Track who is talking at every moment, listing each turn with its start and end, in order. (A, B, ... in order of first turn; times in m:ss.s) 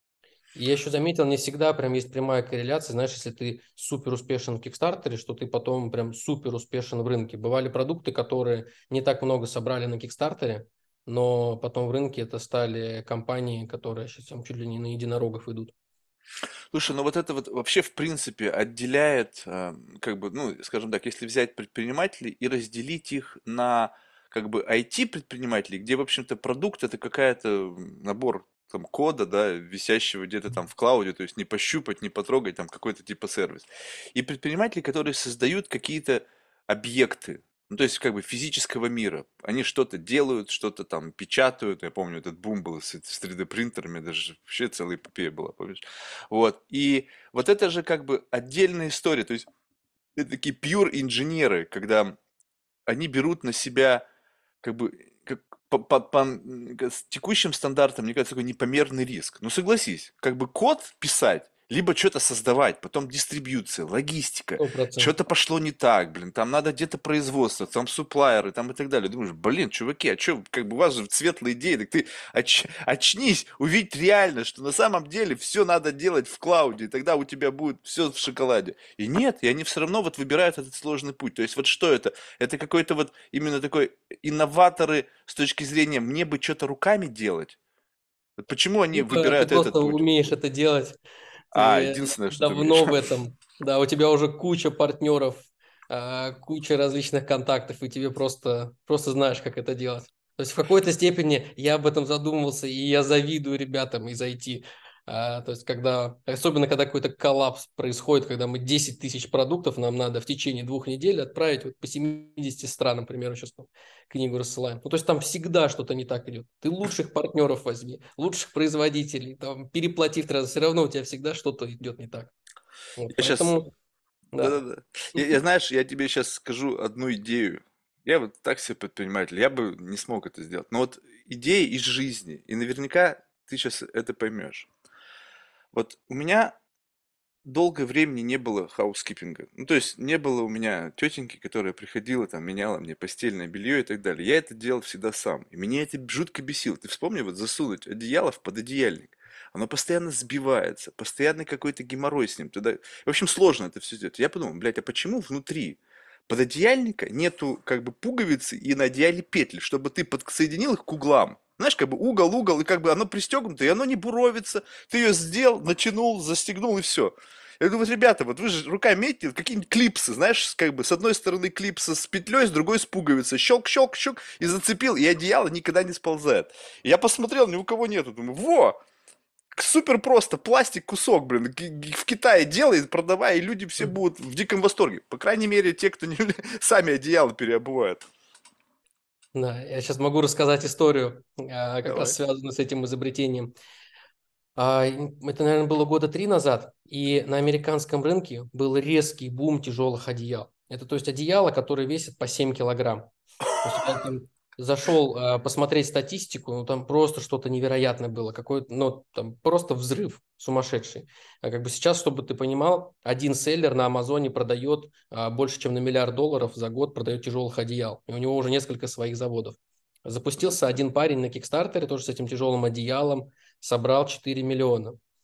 0:00.6-0:15.7 A
0:16.7-0:49.5 B
0:50.2-0:52.2 B
0:52.9-0:54.1 B
0:54.6-1:27.6 B
1:04.6-1:05.1 A
1:28.4-1:30.3 B
1:28.9-1:31.0 A
1:31.5-2:02.3 A
1:31.5-1:33.0 B
2:03.0-2:03.7 A
2:03.2-2:03.6 B
2:04.3-2:04.6 A
2:04.4-2:14.7 B
2:15.7-2:16.6 B
2:17.4-2:58.8 B
2:59.5-3:08.0 B
3:09.4-3:13.5 A
3:11.9-3:12.2 B
3:14.6-3:45.0 A
3:23.5-3:23.9 B